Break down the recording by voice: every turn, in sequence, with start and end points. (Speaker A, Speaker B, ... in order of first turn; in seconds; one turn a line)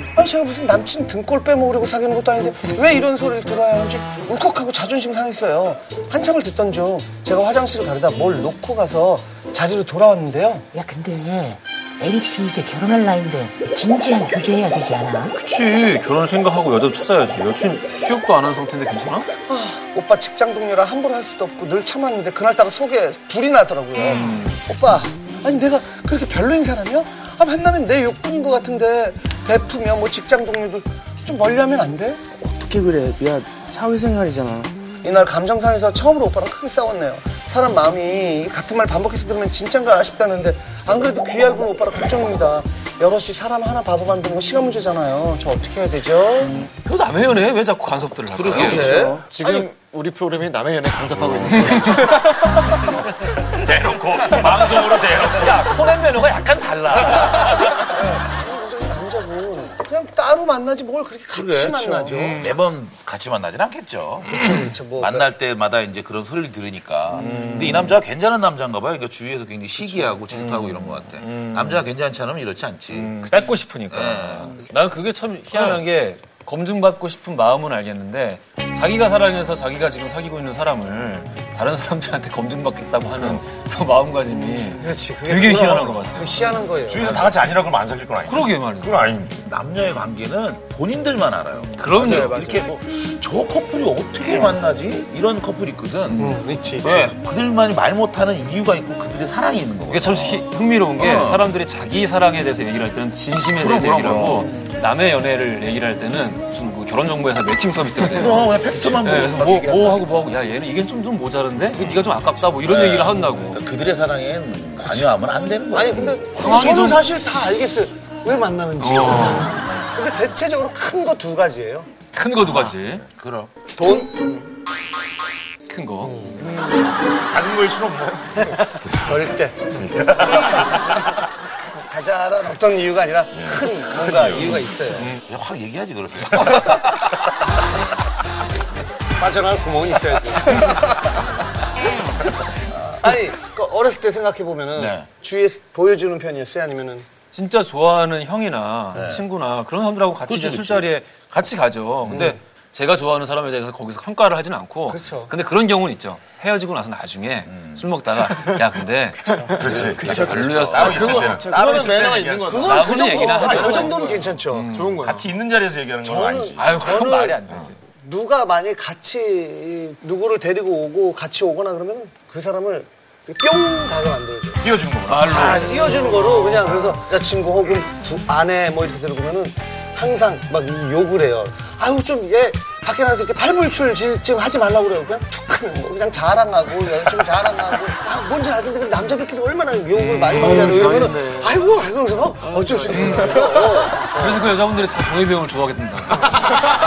Speaker A: 0.2-10.7
Speaker B: 10.7-15.3
Speaker C: 15.3-19.3
Speaker A: 19.5-32.2
Speaker C: 24.0-24.6
Speaker D: 32.4-34.7
Speaker A: 35.0-46.7
Speaker C: 46.8-49.0
Speaker E: 48.3-49.0
Speaker A: 48.5-49.7
Speaker F: 49.2-52.5
Speaker C: 51.5-52.2
Speaker G: 53.6-55.5
Speaker C: 54.4-57.9
Speaker A: 57.7-62.5
Speaker E: 61.3-73.2
Speaker A: 64.3-65.3
Speaker C: 67.2-68.0
Speaker C: 70.0-71.8
Speaker C: 72.9-86.6
Speaker E: 73.9-74.6
Speaker A: 84.8-87.4
Speaker G: 86.9-89.4
Speaker C: 88.3-89.0
Speaker E: 89.4-101.5
Speaker C: 91.8-92.6
Speaker A: 96.2-97.2
Speaker C: 99.9-113.6
Speaker E: 103.6-104.5
Speaker E: 108.0-110.1
Speaker E: 112.6-116.2
Speaker A: 115.7-121.9
Speaker C: 116.3-117.0
Speaker C: 118.8-119.6
Speaker E: 119.5-119.9
Speaker C: 122.1-123.0
Speaker E: 123.1-123.5
Speaker A: 123.7-124.3
Speaker C: 125.7-126.5
Speaker A: 126.0-126.6
Speaker G: 127.3-128.3
Speaker A: 128.9-130.5
Speaker G: 129.9-130.8
Speaker A: 131.8-135.2
Speaker G: 134.2-134.5
Speaker E: 135.2-136.9
Speaker A: 139.2-141.1
Speaker A: 142.9-147.1
Speaker E: 144.8-145.1
Speaker C: 147.3-161.5
Speaker E: 148.9-149.3
Speaker E: 150.3-150.9
Speaker A: 154.9-155.3
Speaker E: 157.5-157.9
Speaker D: 159.3-162.5
Speaker G: 159.6-163.2
Speaker E: 159.6-161.4
Speaker F: 161.6-162.7
Speaker A: 162.4-164.7
Speaker C: 162.6-165.2
Speaker F: 163.4-163.8
Speaker D: 163.7-164.1
Speaker F: 164.7-165.3
Speaker G: 165.0-166.7
Speaker A: 166.0-167.4
Speaker C: 166.6-167.8
Speaker A: 168.0-174.6
Speaker G: 174.6-175.5
Speaker C: 175.1-176.7
Speaker A: 175.2-194.5
Speaker C: 190.0-191.6
Speaker C: 192.9-196.6